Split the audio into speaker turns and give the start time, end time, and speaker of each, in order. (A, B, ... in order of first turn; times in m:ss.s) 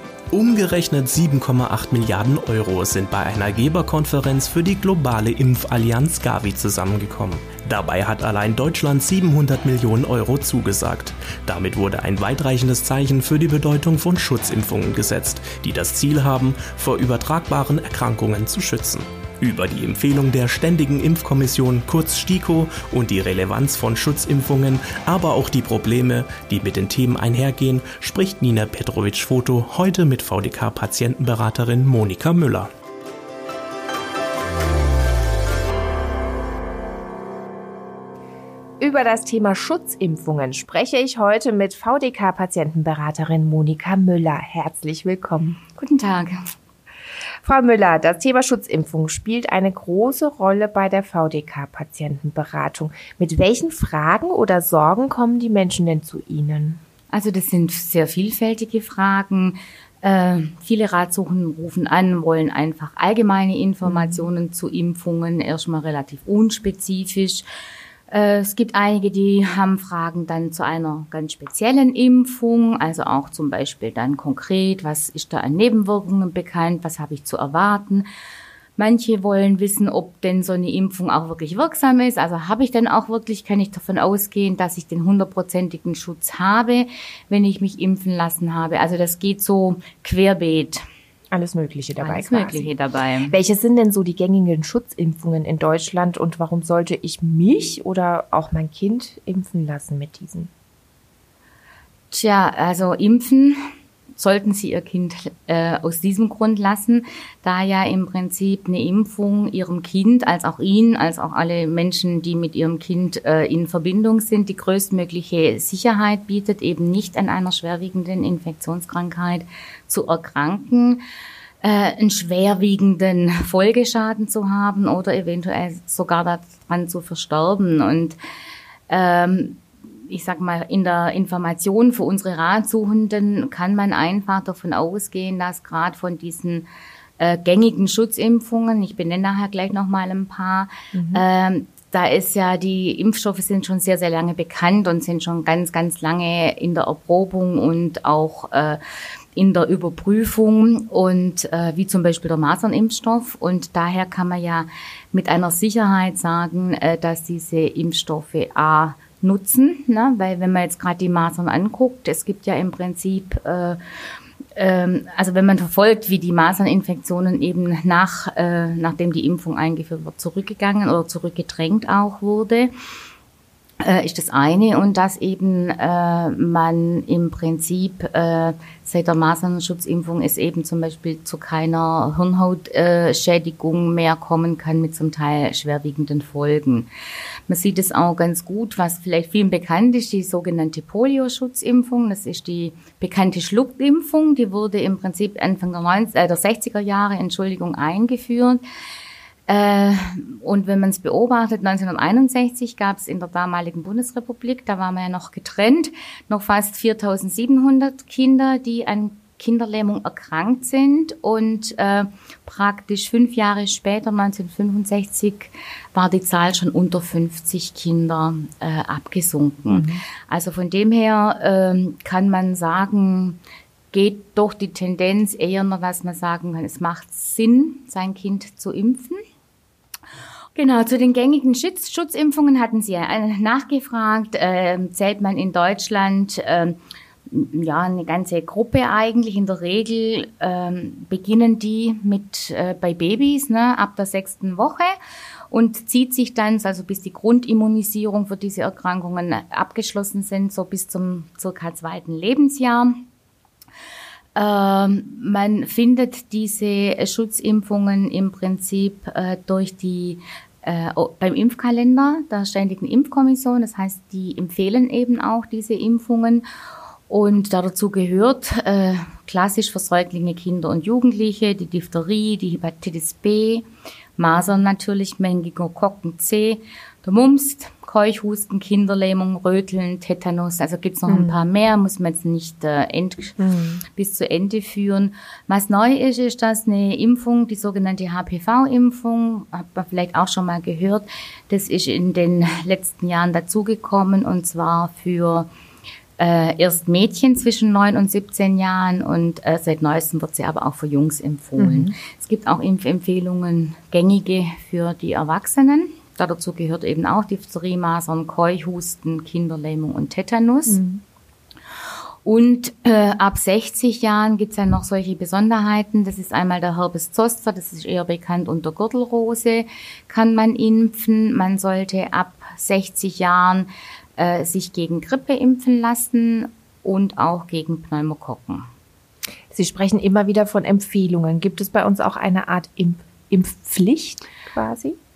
0:00.3-0:32.7 A
0:38.8-0:45.6 B
0:45.8-0:46.5 C
0:47.4-0:56.8 B
0:57.1-1:07.4 C
1:03.8-1:04.2 B
1:08.1-1:18.1 C
1:18.8-1:30.8 C
1:31.3-1:32.7 B
1:32.0-1:33.4 C
1:33.3-1:40.5 B
1:42.1-1:43.6 C
1:44.2-2:01.0 C
2:01.6-2:08.2 C
2:08.9-2:16.7 C
2:17.2-2:28.8 C
2:20.9-2:21.2 B
2:29.4-2:43.8 C
2:44.6-2:52.7 C
2:53.8-3:06.9 C
3:07.5-3:18.6 C
3:19.5-3:43.4 C
3:39.7-3:40.0 B
3:43.9-3:49.2 C
3:50.6-3:56.8 C
3:57.3-4:04.9 C
4:05.5-4:13.0 C
4:14.4-4:26.4 C
4:27.1-4:33.6 C
4:34.2-4:55.5 C
4:41.1-4:41.4 B
4:43.4-4:43.8 B
4:56.2-5:10.8 C
5:01.6-5:02.0 B
5:10.7-5:11.0 B
5:12.2-5:28.7 C
5:29.5-5:35.0 B